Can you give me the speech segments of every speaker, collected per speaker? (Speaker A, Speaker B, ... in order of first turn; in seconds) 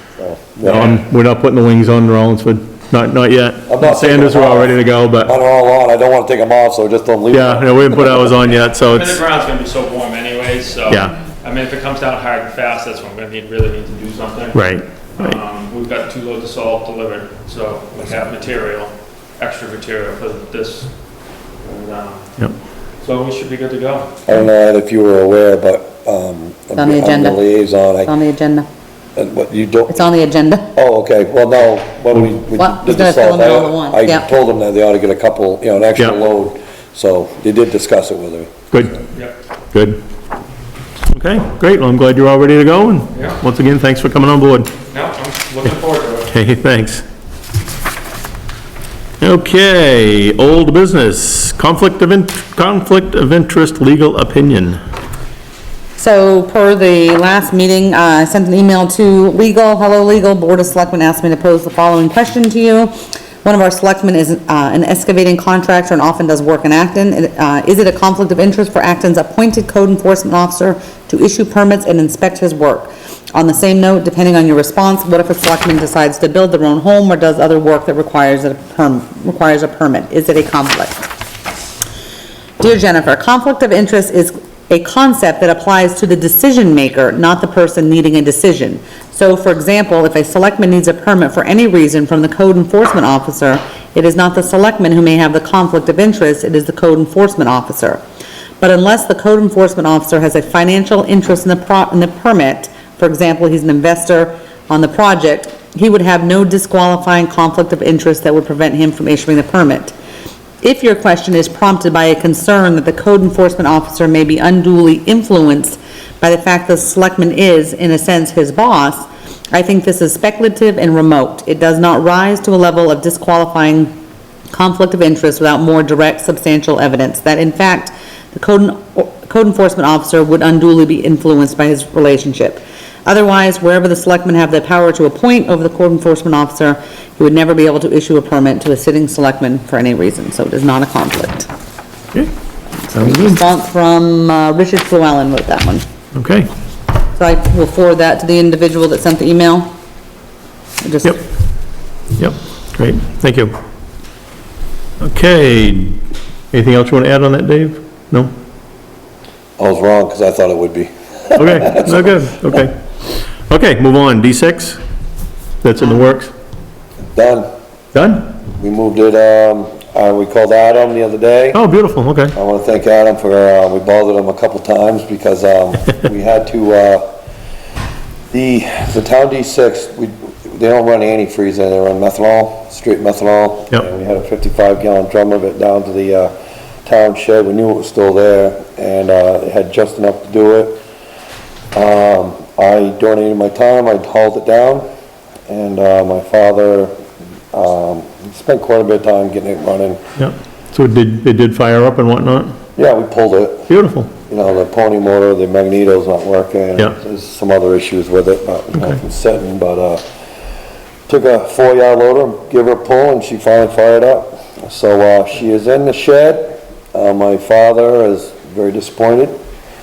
Speaker A: 0.2-1.0, 3.7-8.3, 24.3-28.1, 29.2-30.1, 30.7-38.5, 159.6-162.2, 167.2-167.5, 168.6-171.6, 172.3-177.1, 178.3-186.3, 186.8-190.8, 191.7-194.9, 195.5-196.9, 197.5-200.0, 202.8-203.7, 204.3-210.1, 211.1-219.4
Speaker B: 0.7-5.3, 7.3-9.2, 10.9-11.2, 14.5-15.3, 38.7-39.0, 39.7-40.0, 41.1-44.7, 46.3-47.0, 49.2-54.8, 142.9-143.4, 146.2-146.5, 152.2-153.5, 155.0-156.0, 156.5-158.3, 161.3-162.8, 163.5-164.8, 165.6-166.3, 167.9-168.3, 171.5-172.4, 200.2-202.6, 203.7-204.1
Speaker C: 8.9-20.9, 21.6-22.3, 23.0-24.1, 44.9-46.3
Speaker D: 26.8-28.7, 29.9-30.7, 32.5-34.3, 56.0-81.1, 82.6-98.0, 98.6-109.9, 110.6-123.9, 124.5-141.5, 142.8-145.8, 147.2-149.7, 150.8-151.2